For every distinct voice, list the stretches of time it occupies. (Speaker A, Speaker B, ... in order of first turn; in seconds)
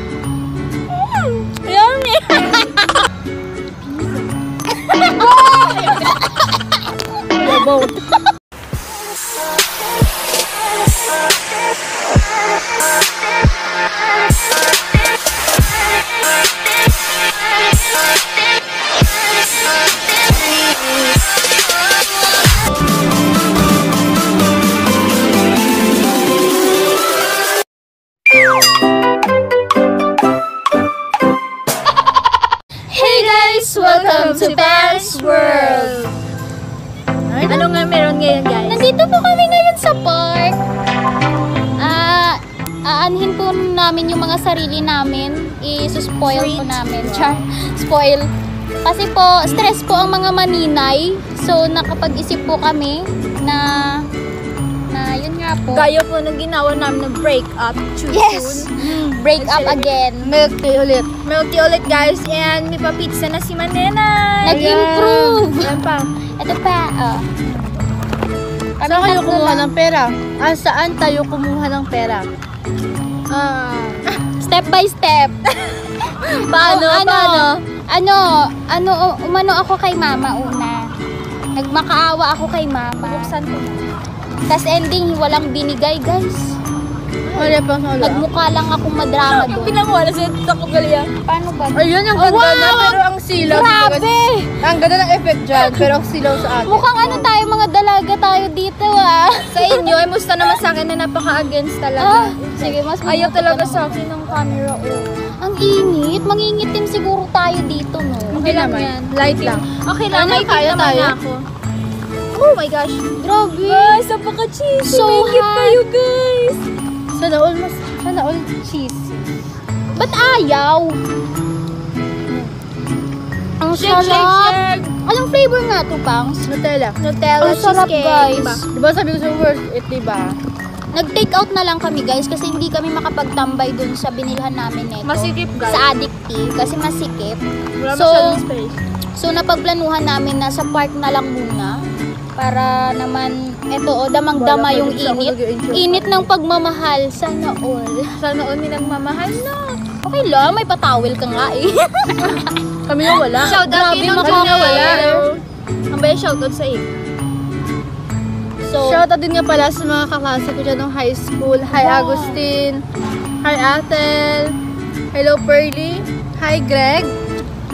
Speaker A: 1.0-2.9, 3.9-4.3, 4.8-6.1, 32.9-36.1, 37.5-38.9, 46.2-47.5, 55.7-59.9, 61.2-66.1, 73.3-74.1, 83.0-83.8, 87.3-87.5, 89.2-91.1, 92.2-94.5, 99.5-105.2, 108.3-111.2, 112.3-116.6, 123.7-124.9, 127.0-128.6, 135.0-135.9, 137.8-138.8, 148.2-149.8, 153.3-155.4, 155.9-156.9, 161.8-162.4
Speaker B: 7.4-8.0, 33.0-36.0, 37.3-37.7, 60.2-61.2, 64.5-65.1, 68.8-72.3, 76.5-77.5, 87.3-88.2, 91.7-96.9, 108.4-111.5, 117.1-119.3, 126.5-127.0, 128.7-130.4, 144.3-146.3, 152.9-155.3, 158.8-162.8, 163.4-164.6, 165.1-167.1
Speaker C: 32.9-35.9, 38.6-40.6, 41.8-48.3, 48.8-54.1, 54.9-55.9, 58.1-60.3, 64.4-65.7, 66.4-67.3, 68.8-69.7, 74.4-75.4, 76.5-80.8, 81.6-83.3, 84.5-86.6, 88.0-89.8, 91.3-91.8, 96.6-100.0, 102.0-104.0, 105.4-108.7, 113.2-114.0, 114.8-115.8, 120.0-121.0, 123.6-126.5, 127.4-128.6, 130.9-138.4, 139.2-141.8, 142.4-148.2, 150.0-152.5, 153.5-155.3, 158.6-159.0